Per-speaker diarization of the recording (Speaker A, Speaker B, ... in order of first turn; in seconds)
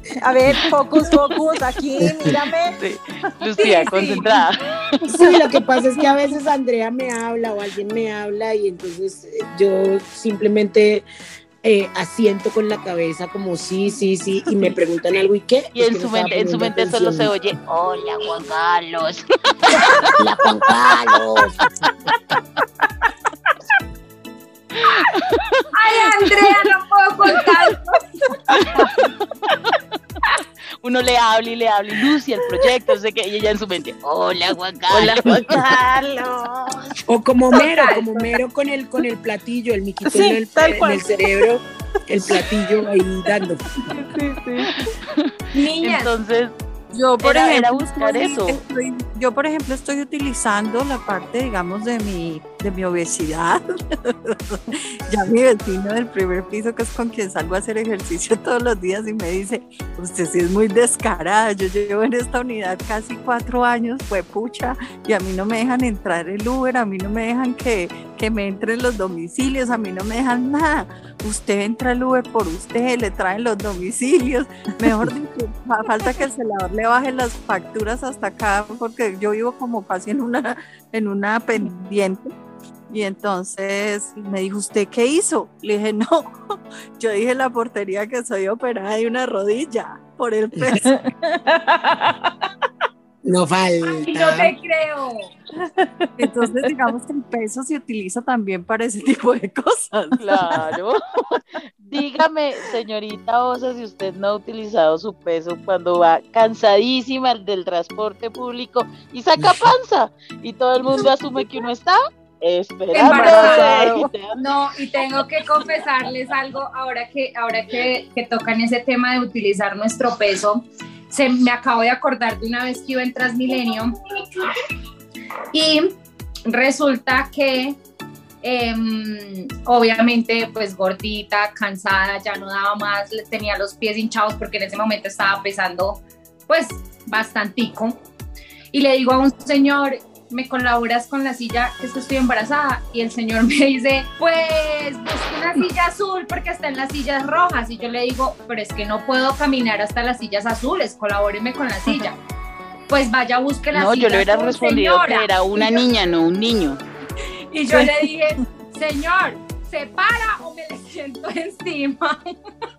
Speaker A: 0.2-4.3, 40.0-41.4, 43.8-44.9, 90.8-92.3, 95.6-96.5, 113.1-114.1
Speaker B: 2.0-2.3, 5.1-11.1, 11.6-17.3, 20.2-21.7, 34.9-35.6, 37.1-43.7, 93.2-94.5
Speaker C: 2.7-4.6, 15.7-21.1, 24.8-26.5, 28.5-29.0, 30.8-37.0, 44.7-46.5, 47.2-48.6, 100.2-114.4, 153.7-156.8
Speaker D: 3.6-4.3, 25.7-28.4, 37.6-38.3, 45.5-46.1, 94.0-95.3, 112.9-124.6, 125.5-127.8, 128.4-138.0, 138.7-152.2, 152.9-155.8, 157.5-162.4
Speaker E: 46.9-82.3, 82.9-91.0, 96.2-100.6